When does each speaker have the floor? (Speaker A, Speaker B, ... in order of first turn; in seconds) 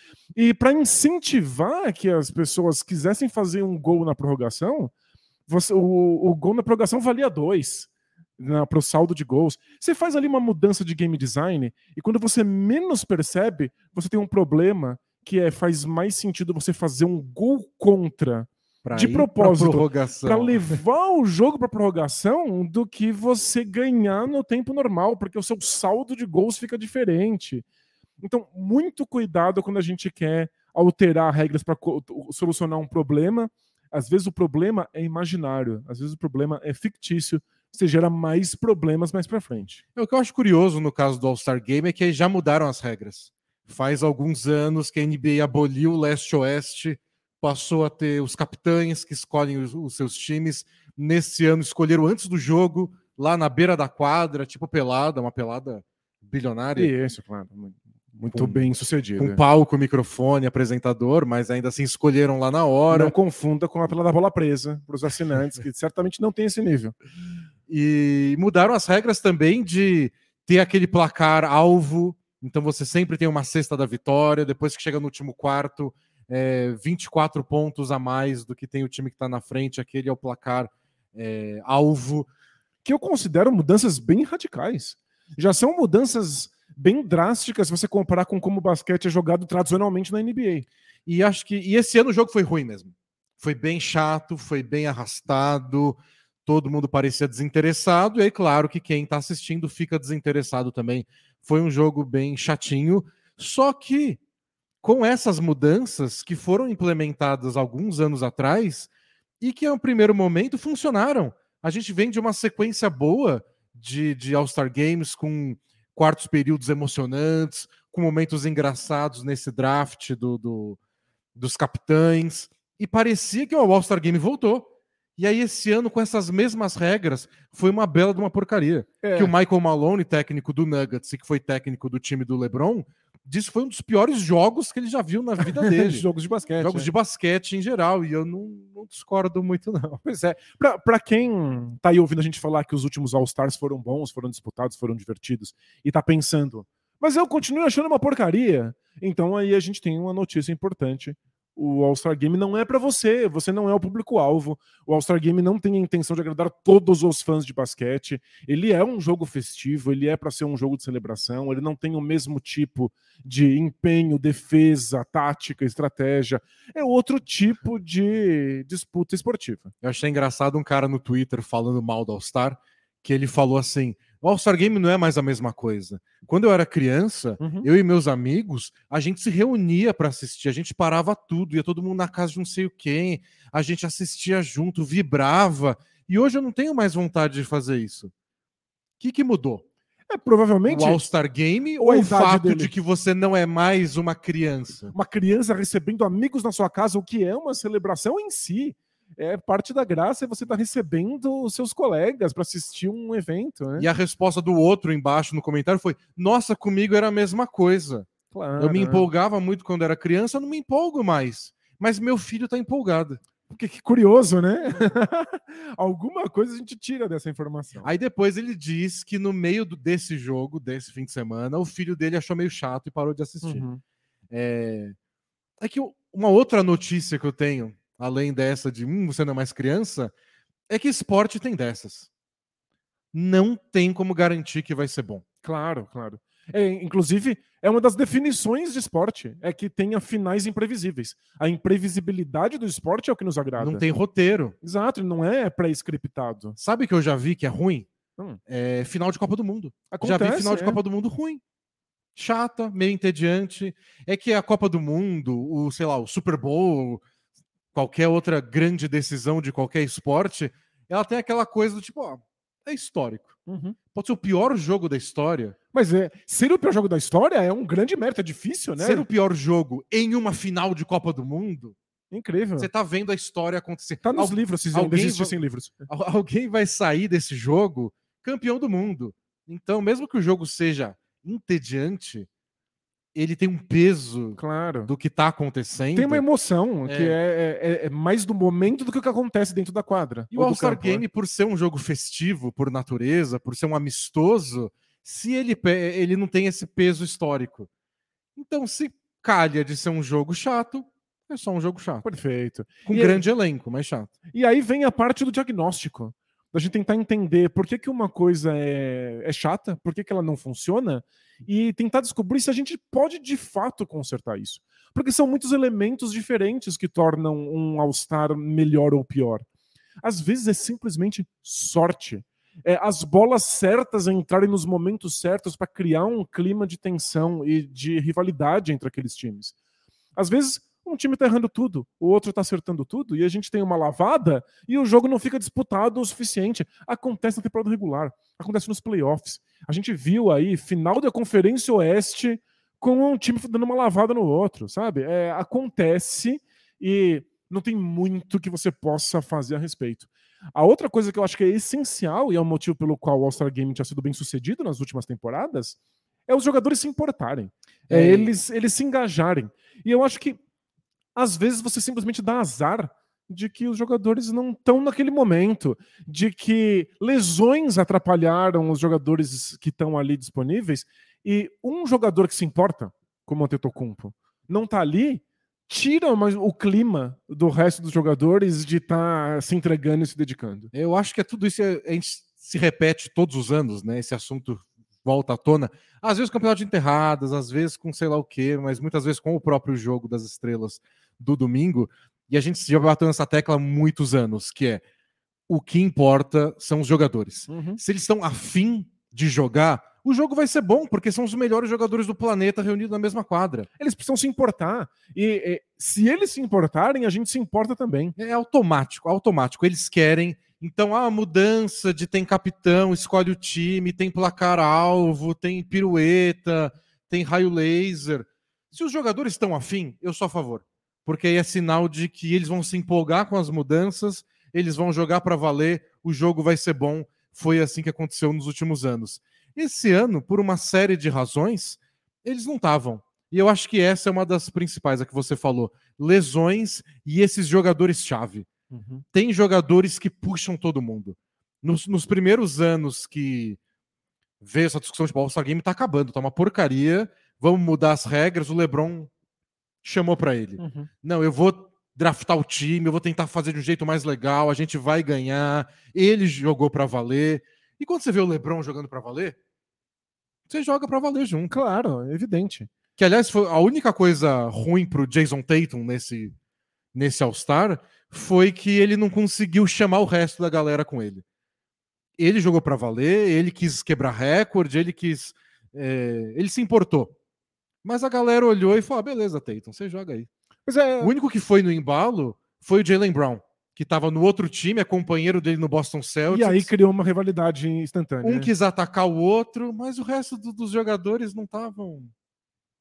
Speaker A: 0.3-4.9, 5.5-27.6, 28.2-39.8, 56.8-59.4, 62.9-67.0, 82.8-90.7, 129.0-129.3, 135.4-136.9, 140.0-169.7, 177.4-177.7, 190.1-191.1, 191.8-192.7, 194.9-203.9, 208.3-209.1, 213.5-217.9, 223.4-223.8, 235.4-243.8, 244.6-246.6, 249.9-250.8, 263.4-263.8, 265.7-269.1, 272.1-272.7, 274.0-275.9, 284.4-284.9, 285.9-291.0, 302.0-303.2, 304.3-319.4, 320.0-329.5, 330.1-360.4, 361.1-380.7, 397.5-397.8, 403.8-408.1, 438.7-439.0, 450.6-450.9, 461.5-462.7, 480.6-481.1, 486.3-488.5
Speaker B: 18.8-20.8, 40.0-56.9, 58.3-63.1, 67.7-82.3, 91.0-104.2, 104.8-108.9, 109.4-120.8, 121.3-136.0, 136.6-140.0, 169.8-188.1, 189.0-189.6, 190.7-194.9, 203.8-213.2, 217.8-223.7, 224.3-224.9, 225.6-230.1, 230.7-232.1, 233.1-235.2, 243.6-244.5, 246.6-247.9, 248.5-251.4, 252.1-257.0, 257.7-263.4, 263.9-265.5, 268.8-271.8, 272.6-275.3, 275.9-282.3, 283.1-286.2, 286.9-287.2, 290.3-297.7, 298.4-302.0, 302.9-304.1, 357.9-358.3, 380.7-394.8, 395.5-403.7, 408.2-438.5, 439.1-443.6, 444.4-449.1, 449.8-459.4, 460.5-461.6, 463.0-466.3, 466.9-471.2, 472.2-477.1, 477.8-480.3, 481.0-486.7, 488.2-492.1